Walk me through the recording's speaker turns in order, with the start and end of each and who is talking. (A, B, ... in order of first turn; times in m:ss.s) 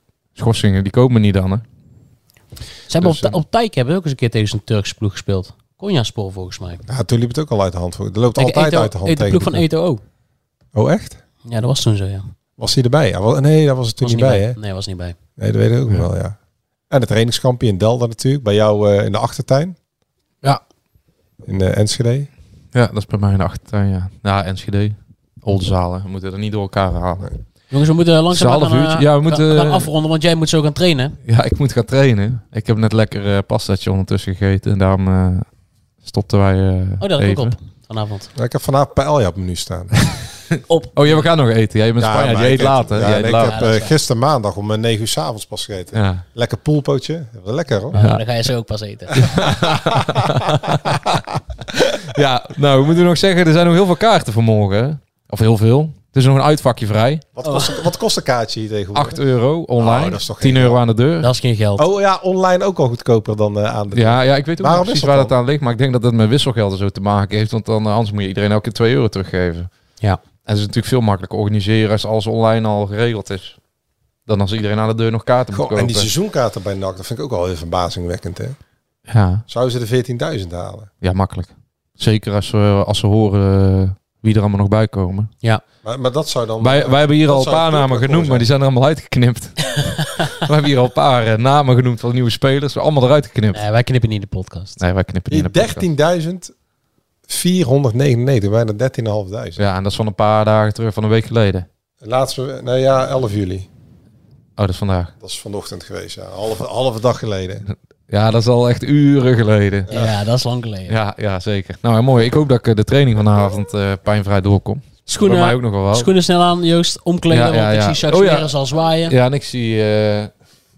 0:00.3-0:01.6 A
0:02.9-0:06.8 B
0:03.0-0:03.4 A
0:06.9-0:09.6 C
0:08.4-0:10.0 B
0:10.7-0:11.2 C
0:11.4-0:12.2 B
0:12.6-0:14.6 C
0:14.0-0:15.2 B
0:15.4-0:16.4 C
0:16.9-0:19.8 C
0:21.4-0:22.3 C
0:22.7-0:27.3 A
0:27.7-0:31.2 B
0:28.3-0:29.9 A
0:31.2-0:35.5 A
0:36.0-0:37.6 A
0:37.0-0:38.3 B
0:38.4-0:40.0 C
0:40.0-0:43.7 A
0:40.7-0:41.2 B
0:42.0-0:47.9 C
0:43.4-0:43.9 B
0:45.9-0:46.2 A
0:47.9-0:48.2 A
0:47.9-0:49.2 B
0:49.2-0:57.3 A
0:49.3-0:50.3 C
0:57.4-0:59.2 C
0:57.4-0:57.8 B
0:58.9-1:01.3 A
0:59.8-1:00.8 C
1:01.2-1:01.8 B
1:01.8-1:05.3 C
1:03.9-1:09.7 A
1:10.4-1:13.6 A
1:14.2-1:16.1 A
1:15.5-1:18.6 C
1:19.1-1:19.4 A
1:19.5-1:20.9 C
1:21.0-1:25.3 A
1:25.8-1:28.5 C
1:26.6-1:33.6 A
1:33.5-1:34.8 B
1:34.8-1:35.9 A
1:35.3-1:36.5 C
1:37.3-1:39.6 C
1:39.6-1:41.7 A
1:42.0-1:43.7 C
1:44.6-1:45.1 A
1:45.2-1:47.6 C
1:47.7-1:50.0 A
1:49.9-1:50.1 C
1:49.9-1:51.0 B
1:50.9-1:56.1 A
1:55.1-1:59.2 B
1:57.3-1:58.5 A
1:59.1-2:00.3 A